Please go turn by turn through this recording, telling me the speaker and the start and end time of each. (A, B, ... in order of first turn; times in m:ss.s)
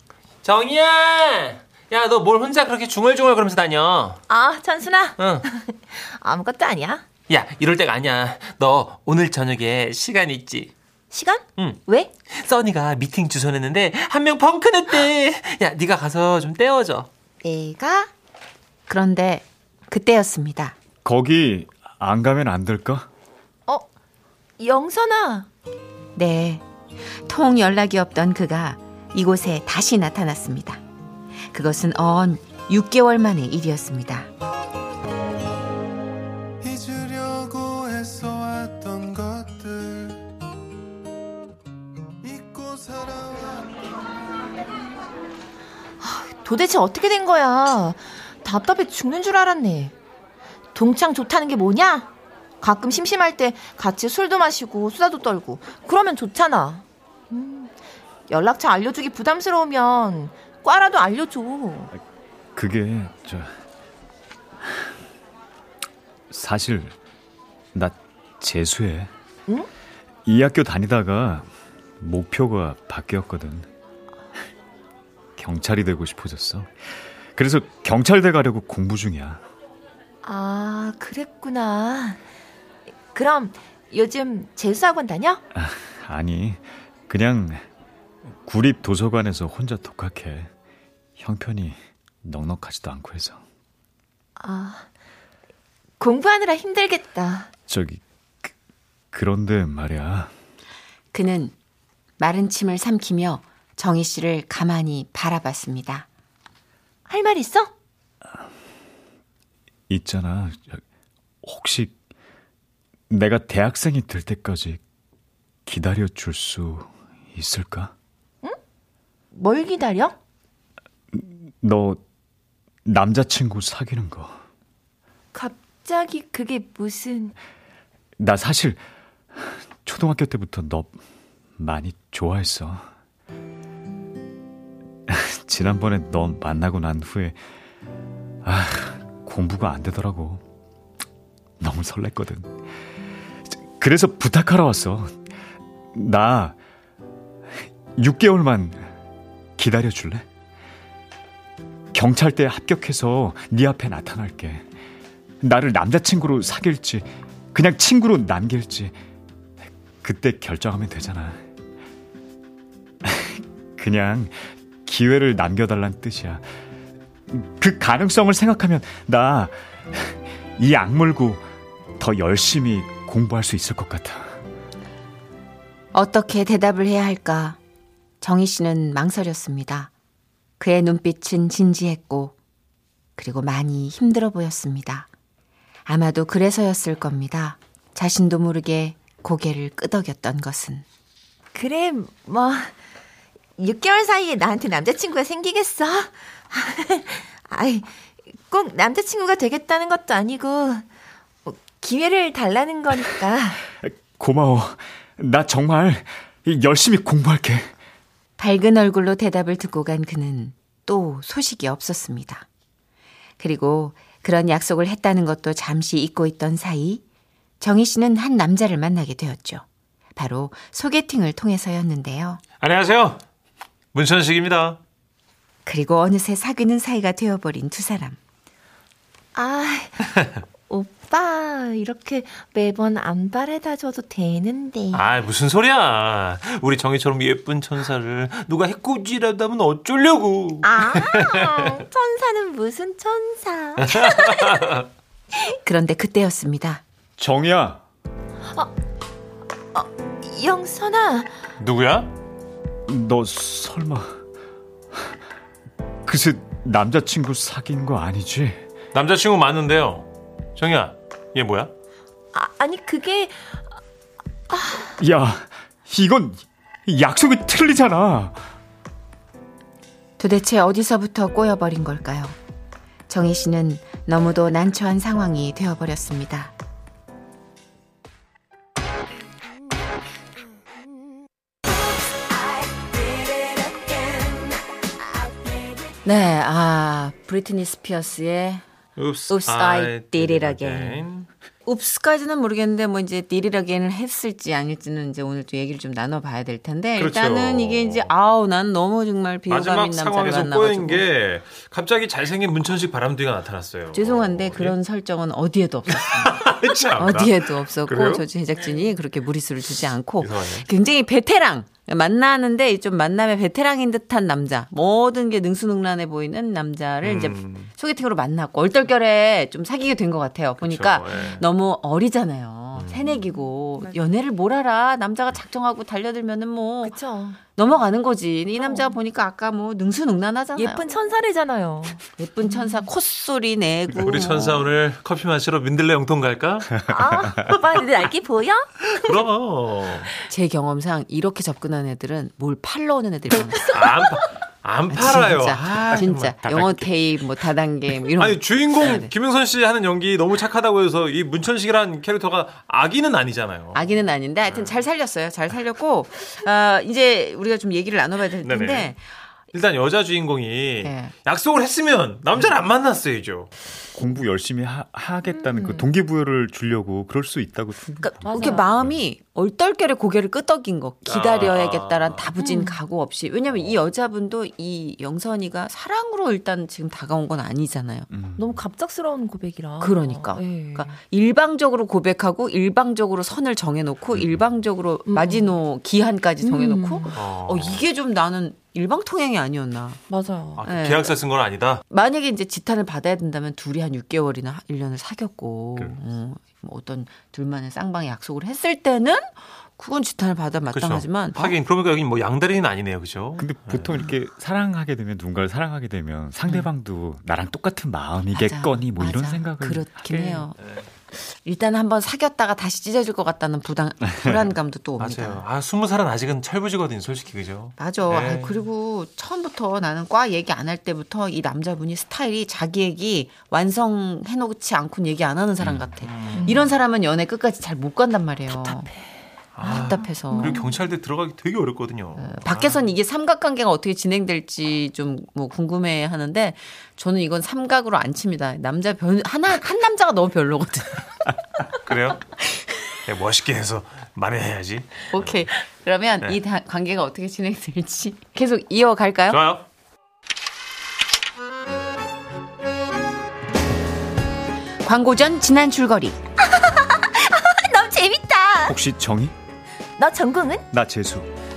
0:00.4-0:04.2 A
0:04.3-0:07.0 B
0:05.2-0:05.4 A
0:07.3-0:10.7 A
0:11.1-0:12.1 B
0:11.6-0:17.1 A
0:17.4-0:18.1 B
0:18.9-0:20.8 C
0:21.0-0:23.1 D
0:24.6-0:25.5 B
0:26.2-0:26.6 C
0:27.2-0:30.8 C
0:31.5-0:34.3 C
0:36.6-0:40.2 E
0:42.2-0:43.7 E
0:46.0-0:49.9 B
0:50.8-0:52.1 B
0:52.6-0:57.7 B
0:58.3-1:01.9 B
1:02.6-1:03.5 D
1:06.3-1:07.0 D
1:07.7-1:09.1 D
1:10.2-1:11.5 D
1:12.0-1:13.7 D
1:15.4-1:19.4 D
1:20.2-1:22.2 B
1:23.1-1:25.4 B
1:25.5-1:27.6 D
1:28.4-1:30.5 D
1:31.2-1:33.4 D
1:34.4-1:34.9 B
1:36.0-1:37.5 B
1:37.7-1:38.5 D
1:39.1-1:40.3 D
1:41.1-1:41.5 C
1:42.2-1:46.1 C
1:47.1-1:47.7 B
1:49.9-1:50.8 D
1:51.4-1:51.9 D
1:53.1-1:54.8 D
1:55.7-1:57.9 D
1:59.3-2:00.2 B
2:01.1-2:02.0 D
2:02.8-2:04.4 D
2:05.3-2:07.3 B
2:08.2-2:08.8 D
2:09.4-2:11.0 D
2:11.6-2:12.9 D
2:15.1-2:17.4 D
2:18.4-2:20.4 D
2:21.6-2:22.6 D
2:23.5-2:25.2 D
2:25.9-2:26.6 D
2:28.0-2:28.9 D
2:29.6-2:30.3 D
2:31.9-2:34.6 D
2:35.4-2:39.0 D
2:40.0-2:41.4 D
2:43.0-2:46.4 D
2:47.3-2:51.4 D
2:52.0-2:54.4 D
2:55.9-2:57.6 C
2:58.2-2:59.9 C
3:00.6-3:02.4 C
3:03.2-3:05.1 C
3:05.9-3:10.8 C
3:11.5-3:12.7 B
3:13.6-3:17.9 B
3:18.4-3:20.9 B
3:21.5-3:23.6 B
3:23.8-3:27.7 D
3:28.4-3:32.5 C
3:33.4-3:37.0 C
3:37.6-3:39.6 C
3:40.2-3:42.4 C
3:42.6-3:43.2 A
3:43.9-3:44.8 A
3:45.7-3:48.2 C
3:49.4-3:50.0 B
3:50.7-3:55.0 B
3:54.9-4:01.8 A
4:00.6-4:04.7 B
4:03.8-4:04.8 A
4:05.6-4:06.8 C
4:07.2-4:07.8 D
4:09.7-4:11.3 B
4:11.6-4:12.1 A
4:12.9-4:14.2 D
4:16.1-4:18.7 D
4:18.9-4:21.7 A
4:22.3-4:23.6 B
4:24.5-4:24.9 B
4:25.0-4:28.4 D
4:30.2-4:32.4 C
4:33.1-4:36.5 C
4:46.0-4:48.6 C
4:49.0-4:51.3 A
4:49.3-4:51.1 C
4:51.7-5:01.1 C
4:57.0-4:58.1 A
4:59.5-5:04.8 A
5:03.9-5:27.0 C
5:06.0-5:08.2 A
5:10.2-5:10.7 A
5:17.0-5:17.7 A
5:20.6-5:21.4 A
5:22.8-5:23.3 A
5:26.8-5:27.4 B
5:27.6-5:30.8 C
5:28.6-5:28.9 B
5:30.6-5:32.0 B
5:32.2-5:34.7 C
5:34.0-5:36.8 A
5:36.9-5:38.7 B
5:38.9-5:40.1 A
5:40.3-5:43.8 C
5:43.7-5:46.9 A
5:44.9-5:49.1 C
5:48.2-5:53.9 A
5:53.7-5:59.0 C
5:54.5-5:54.7 A
5:58.4-5:58.9 A
5:59.5-6:03.5 A
6:00.8-6:01.1 C
6:04.0-6:08.9 D
6:05.4-6:05.8 B
6:08.0-6:18.1 C
6:08.3-6:08.6 B
6:11.1-6:12.3 A
6:12.4-6:12.7 B
6:18.1-6:18.6 D
6:18.4-6:20.8 B
6:19.8-6:30.0 C
6:25.1-6:25.5 B
6:26.4-6:27.1 B
6:27.1-6:27.8 A
6:30.1-6:30.6 B
6:30.6-6:31.8 A
6:30.6-6:31.1 C
6:31.9-6:41.6 C
6:40.7-6:43.9 A
6:43.4-6:50.2 D
6:48.3-6:50.6 C
6:50.1-6:50.8 A
6:51.2-6:55.4 C
6:55.0-6:58.6 A
6:57.8-7:08.9 C
7:05.6-7:06.7 A
7:09.6-7:12.8 A
7:09.6-7:10.6 C
7:10.3-7:10.6 B
7:12.2-7:21.1 C
7:21.8-7:22.2 A
7:23.1-7:25.4 A
7:25.1-7:29.4 C
7:29.3-7:29.6 A
7:34.8-7:36.2 C
7:36.4-7:38.8 B
7:38.7-7:39.3 D
7:40.0-7:40.6 B
7:40.7-7:41.3 D